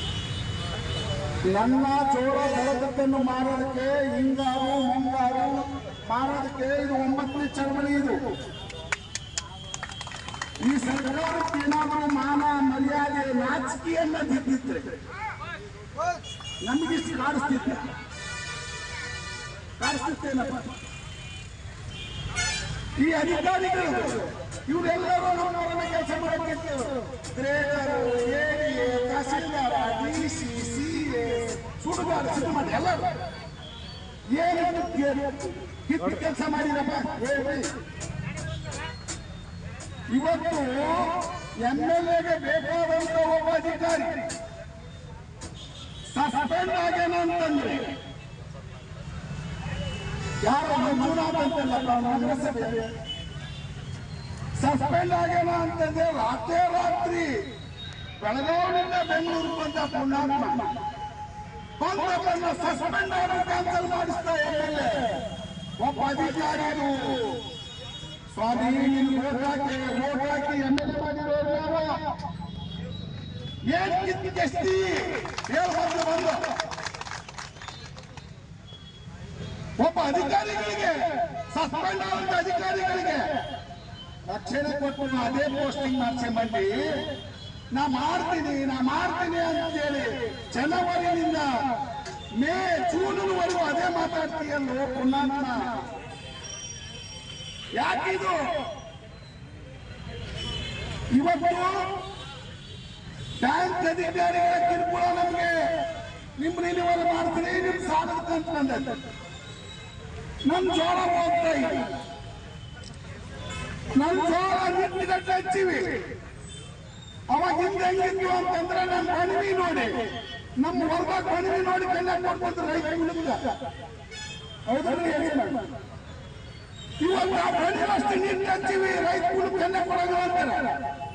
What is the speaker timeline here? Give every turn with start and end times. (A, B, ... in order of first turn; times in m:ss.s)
0:01.5-0:08.2 A
0:10.6-0:15.0 A
0:16.6-0:17.8 A
0:19.8-0:20.6 A
0:23.0-0:33.1 A
0:34.3-0:37.7 A
0:40.1-0:44.2 A
0:46.1-0:47.9 A
0:50.4-0:52.9 A
0:54.6-0:57.4 A
0:58.2-1:00.7 A
1:01.8-1:05.1 A
1:05.8-1:07.4 A
1:08.3-1:12.0 A
1:13.7-1:16.4 A
1:19.8-1:23.3 A
1:24.3-1:26.9 A
1:27.7-1:31.5 A
1:32.4-1:35.8 A
1:37.8-1:38.5 A
1:41.1-1:41.9 A
1:43.4-1:45.8 A
1:46.4-1:49.0 A
1:50.4-1:51.9 A
1:54.0-1:56.0 A
1:57.3-2:00.0 A
2:00.6-2:03.5 A
2:04.7-2:05.6 A
2:07.0-2:10.8 A